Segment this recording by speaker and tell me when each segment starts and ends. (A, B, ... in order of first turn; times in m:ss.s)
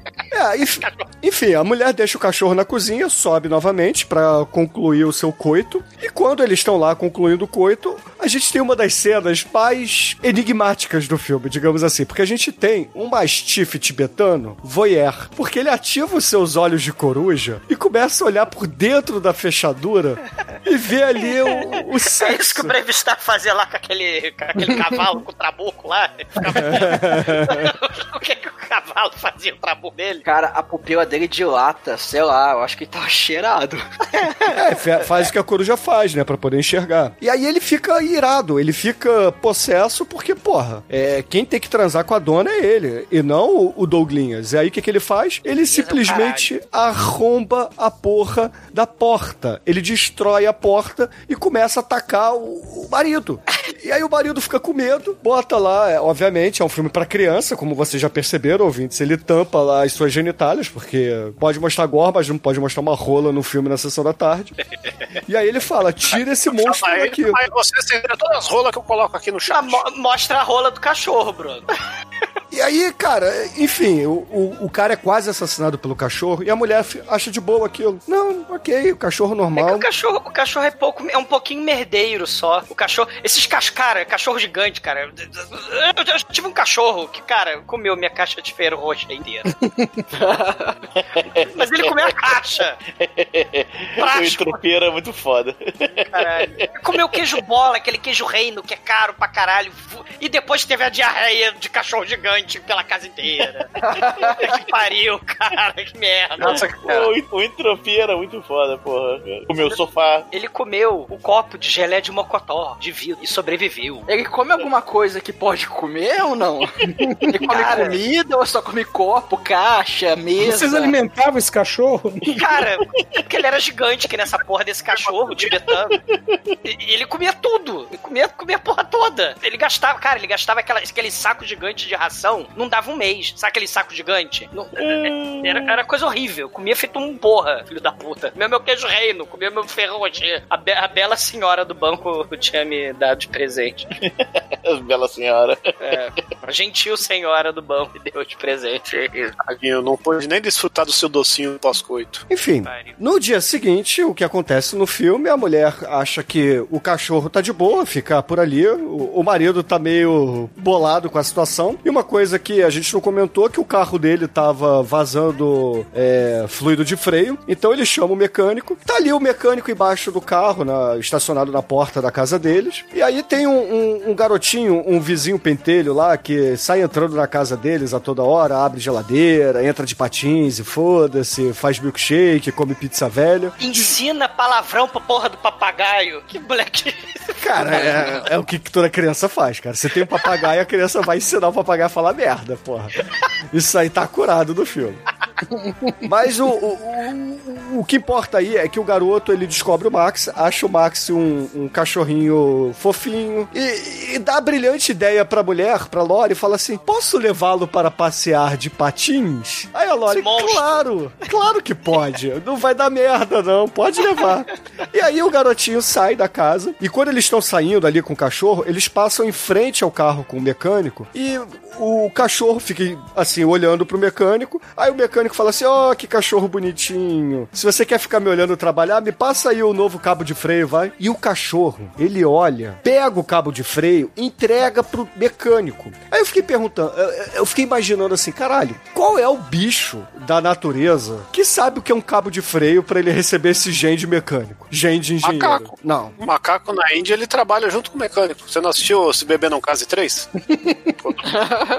0:00.3-0:22.8 A
0:00.8-0:01.1 B
0:22.1-0:30.2 B
0:26.7-0:27.7 A
0:30.2-0:33.8 C
0:34.2-0:34.6 B
0:34.5-1:04.5 A
0:45.7-0:46.5 B
1:05.3-1:07.4 A
1:06.5-1:09.8 D
1:09.5-1:11.6 B
1:12.5-1:19.9 A
1:19.6-1:29.5 B
1:30.2-1:30.7 C
1:30.9-1:32.1 E
1:31.4-1:32.8 B
1:33.0-1:37.0 E
1:34.0-1:34.6 B
1:36.1-1:46.6 B
1:43.8-1:44.3 E
1:43.9-1:44.4 C
1:46.4-1:47.1 D
1:46.4-1:50.3 E
1:50.3-1:54.0 B
1:54.1-2:01.0 C
1:57.5-1:58.0 B
2:00.4-2:02.4 F
2:02.3-2:06.0 B
2:06.0-2:06.4 E
2:06.6-2:23.8 B
2:14.8-2:15.8 E
2:24.0-2:25.9 E
2:25.8-2:29.3 B
2:29.4-2:32.2 D
2:32.3-3:03.9 A
2:32.6-2:33.0 B
3:03.6-3:08.2 B
3:07.4-3:12.9 A
3:13.5-3:15.0 A
3:16.0-4:06.1 A
3:30.1-3:30.8 B
4:05.2-4:10.3 D
4:10.5-4:10.9 F
4:11.0-4:11.6 D